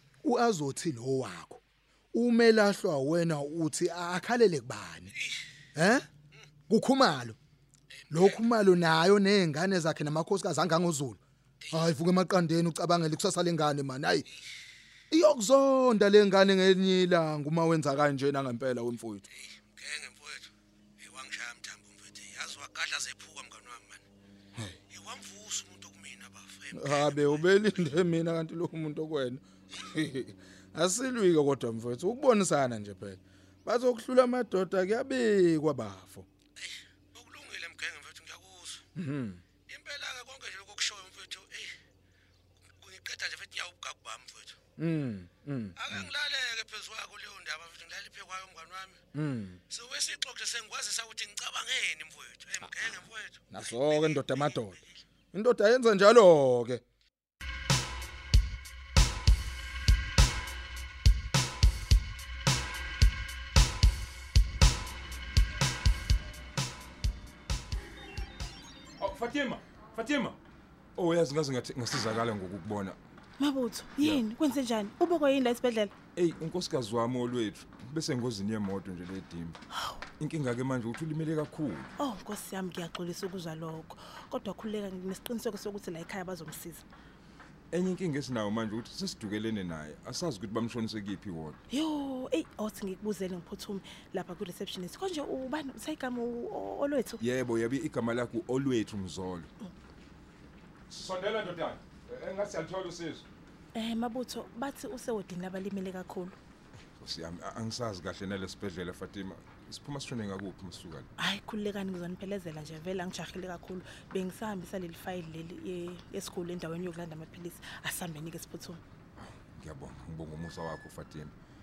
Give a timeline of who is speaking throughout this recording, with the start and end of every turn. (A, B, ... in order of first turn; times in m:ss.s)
0:00.2-0:01.6 A
0:02.1-0:05.1 A
0:05.8-0:06.1 A
0:06.7-0:07.4 A
0:08.1-0:11.2 A
0:11.7-0:14.3 A
0:15.1-0:19.2 A
0:19.3-0:20.5 B
0:21.0-0:24.0 B
0:24.9-0:27.4 B
0:26.7-0:36.3 A
0:36.6-0:38.8 B
0:39.0-0:39.4 A
0:39.7-0:41.8 B
0:42.8-0:44.6 B
0:44.8-0:46.1 A
0:45.8-0:49.0 B
0:49.1-0:49.6 A
0:49.7-0:54.6 B
0:52.6-0:54.8 A
0:55.3-0:56.8 A
1:09.0-1:10.4 C
1:11.0-1:13.0 C
1:13.4-1:15.9 D
1:16.2-1:19.6 C
1:20.2-1:21.9 C
1:22.0-1:26.8 D
1:27.7-1:31.6 C
1:31.7-1:37.2 D
1:37.2-1:39.5 C
1:40.9-1:43.2 C
1:43.8-1:46.4 D
1:47.0-1:51.1 C
1:51.2-1:58.8 D
1:59.2-2:01.3 C